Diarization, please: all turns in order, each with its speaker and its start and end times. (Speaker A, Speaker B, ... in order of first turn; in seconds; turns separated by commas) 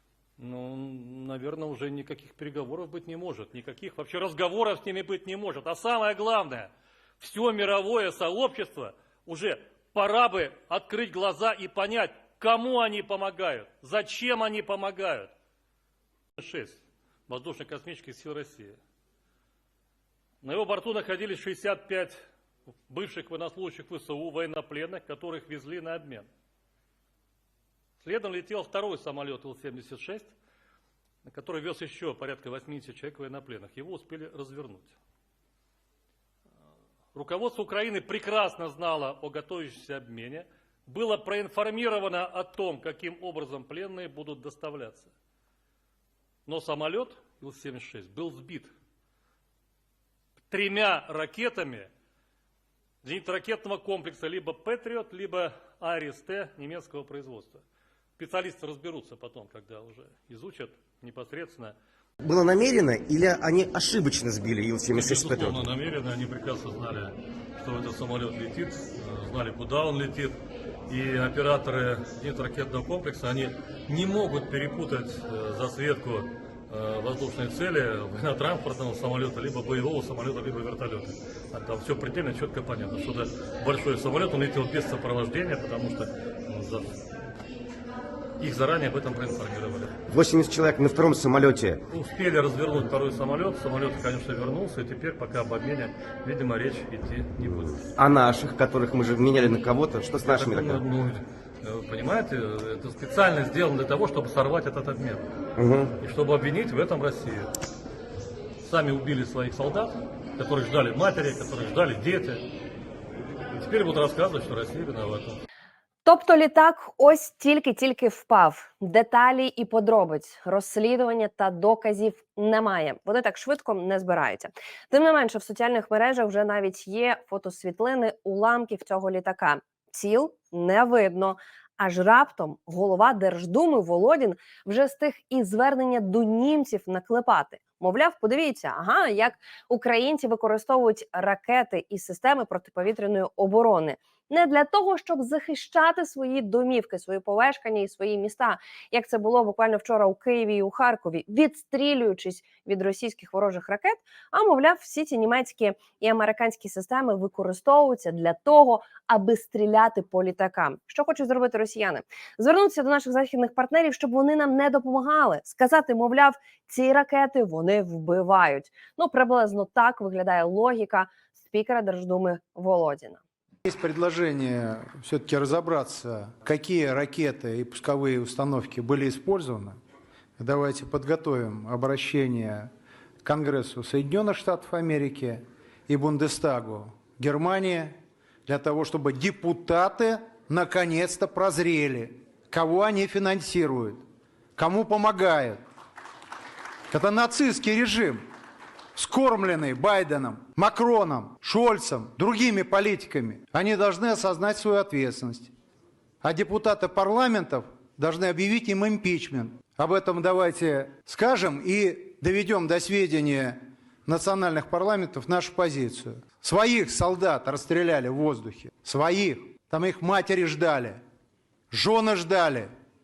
Speaker A: 0.4-15.3, Speaker A: 16.4-18.8, Speaker A: 20.4-22.2, Speaker A: 22.9-26.3, Speaker A: 28.0-30.3, Speaker A: 31.2-34.9, Speaker A: 37.1-45.1, Speaker A: 46.5-48.7, Speaker A: 50.5-51.9, Speaker A: 53.0-57.6, Speaker A: 58.2-61.7, Speaker B: 62.2-65.7, Speaker A: 64.9-70.4, Speaker A: 70.9-87.0, Speaker A: 88.4-89.9, Speaker B: 90.1-91.8, Speaker A: 91.9-97.9, Speaker B: 97.4-100.9, Speaker A: 100.2-105.2, Speaker B: 105.6-105.9, Speaker A: 106.0-107.5, Speaker A: 108.6-112.4, Speaker A: 113.5-115.4, Speaker C: 116.0-173.2, Speaker D: 173.7-179.8, Speaker D: 180.4-182.7, Speaker D: 183.2-187.9, Speaker D: 188.5-194.0, Speaker D: 194.6-195.6, Speaker D: 196.9-198.2, Speaker D: 198.9-205.5, Speaker D: 206.2-221.0, Speaker D: 221.7-222.7